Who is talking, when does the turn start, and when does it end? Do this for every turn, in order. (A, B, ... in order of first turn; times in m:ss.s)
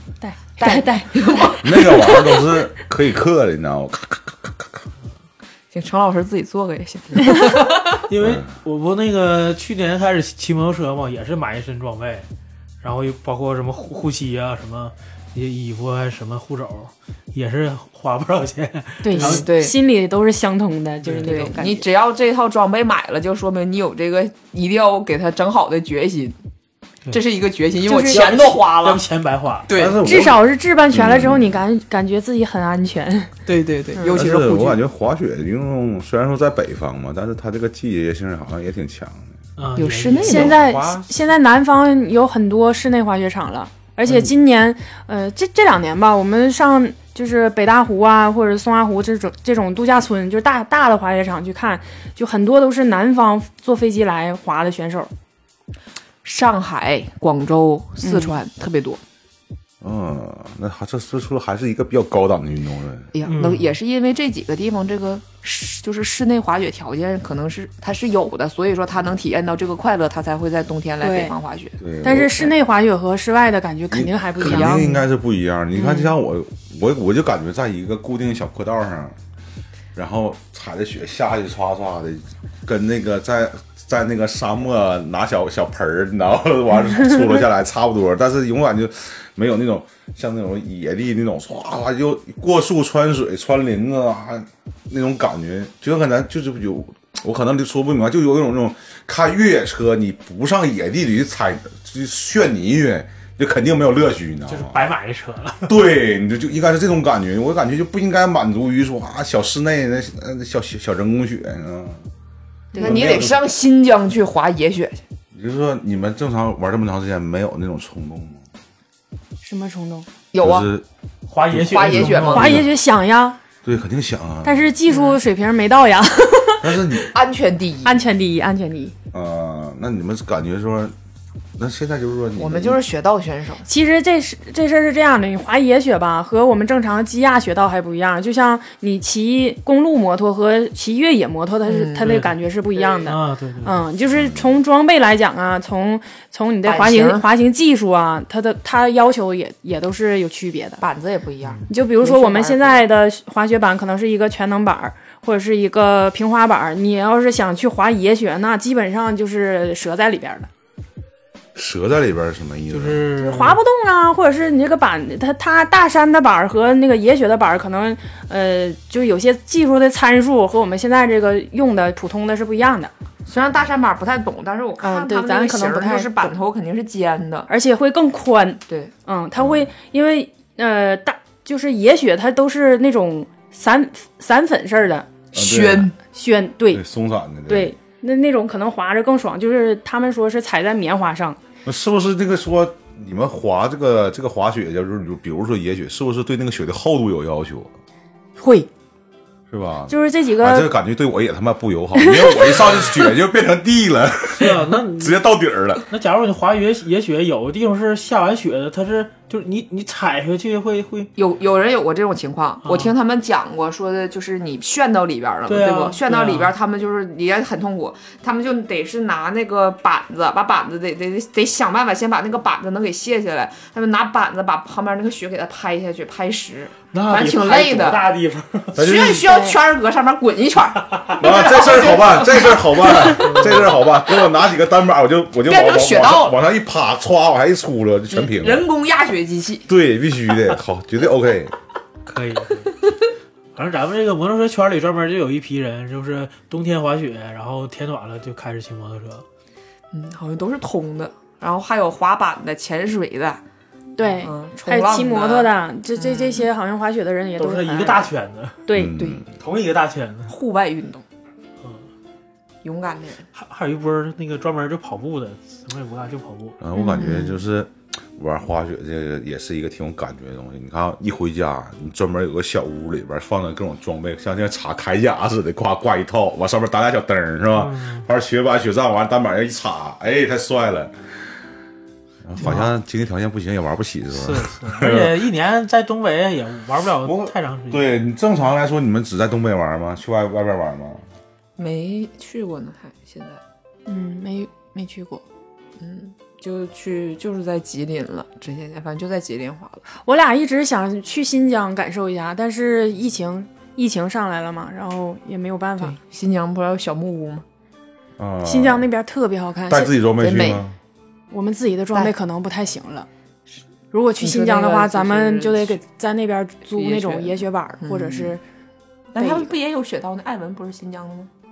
0:00.2-0:01.6 A
0:00.6-0:02.3 B
0:01.6-0:04.8 C
0:05.7-0:08.0 B
0:08.0-0:12.3 D
0:08.2-0:08.5 C
0:12.8-0:19.5 D
0:19.0-0:21.8 A
0:19.2-0:19.7 B
0:21.0-0:21.5 D
0:21.2-0:26.4 B
0:27.1-0:29.0 B
0:27.8-0:28.3 A
0:28.0-0:30.3 D
0:29.7-0:30.0 B
0:29.7-0:31.6 C
0:30.0-0:33.3 A
0:33.5-0:34.8 B
0:34.0-0:34.2 A
0:34.1-0:39.3 C
0:39.6-0:40.6 D
0:39.8-0:40.6 B
0:40.2-0:41.1 C
0:40.2-0:55.1 A
0:56.2-0:59.0 B
0:58.0-0:58.4 A
0:59.8-1:03.1 C
1:03.1-1:11.8 B
1:03.2-1:03.7 D
1:11.0-1:11.4 A
1:11.8-1:12.5 C
1:12.0-1:15.0 A
1:13.9-1:19.2 C
1:14.4-1:15.0 B
1:15.8-1:16.1 A
1:20.0-1:44.8 C
1:44.5-1:45.8 D
1:45.7-1:52.0 C
1:52.7-1:53.2 A
1:52.8-1:55.0 B
1:52.8-1:53.5 C
1:55.3-1:58.4 C
1:59.4-2:00.1 A
2:00.3-2:00.7 B
2:00.4-2:00.8 C
2:01.3-2:02.6 D
2:01.5-2:02.7 C
2:01.7-2:02.6 B
2:02.3-2:03.4 A
2:03.6-2:04.7 C
2:04.4-2:07.0 A
2:04.9-2:05.2 B
2:06.6-2:07.1 C
2:07.1-2:08.0 B
2:07.8-2:09.0 A
2:09.1-2:10.9 C
2:11.6-2:12.8 C
2:12.4-2:13.7 B
2:13.7-2:30.8 A
2:21.6-2:23.0 B
2:22.0-2:22.3 D
2:23.0-2:23.8 D
2:24.1-2:24.5 C
2:26.6-2:27.2 B
2:30.8-2:32.8 B
2:31.7-2:40.5 A
2:41.6-2:43.0 C
2:42.7-2:43.6 D
2:43.2-2:52.9 A
2:53.3-2:57.5 B
2:54.8-2:56.3 A
2:57.5-3:05.1 A
2:58.7-2:58.9 B
2:59.4-2:59.7 C
3:05.3-3:05.9 C
3:05.3-3:06.0 B
3:06.1-3:06.8 A
3:06.7-3:07.7 C
3:07.5-3:11.4 A
3:11.6-3:17.7 C
3:18.4-3:18.7 A
3:19.5-3:25.8 C
3:19.9-3:20.7 A
3:22.0-3:22.4 A
3:24.4-3:25.2 D
3:25.9-3:31.1 D
3:31.2-3:48.1 B
3:32.6-3:32.9 D
3:35.5-3:36.5 D
3:46.9-3:48.8 D
3:48.8-3:49.3 C
3:48.8-3:53.2 B
3:49.3-3:49.6 A
3:51.2-3:58.7 C
3:53.2-3:53.8 D
3:55.5-3:56.4 B
3:58.1-3:59.7 B
3:59.7-4:01.5 C
4:02.1-4:02.9 D
4:03.6-4:09.2 D
4:09.9-4:13.4 B
4:14.0-4:18.0 A
4:14.2-4:16.5 B
4:17.4-4:18.6 D
4:18.7-4:19.0 A
4:18.7-4:19.2 C
4:19.4-4:20.3 D
4:20.3-4:21.0 B
4:22.6-4:23.3 B
4:23.3-4:26.6 D
4:26.6-4:40.9 C
4:26.8-4:27.3 A
4:27.0-4:27.3 B
4:37.6-4:38.1 D
4:42.2-4:45.2 C
4:42.4-4:42.7 D
4:44.1-4:47.9 D
4:47.0-4:51.0 C
4:51.6-4:53.4 B
4:53.9-4:55.2 A
4:55.8-4:59.8 B
5:00.0-5:06.0 A
5:05.8-5:07.4 B
5:08.2-5:08.9 C
5:08.4-5:09.9 A
5:09.7-5:10.8 C
5:10.2-5:10.6 B
5:11.3-5:13.1 A
5:13.9-5:18.4 A
5:14.2-5:15.8 B
5:16.7-5:18.4 B
5:19.1-5:21.3 B
5:19.2-5:19.5 A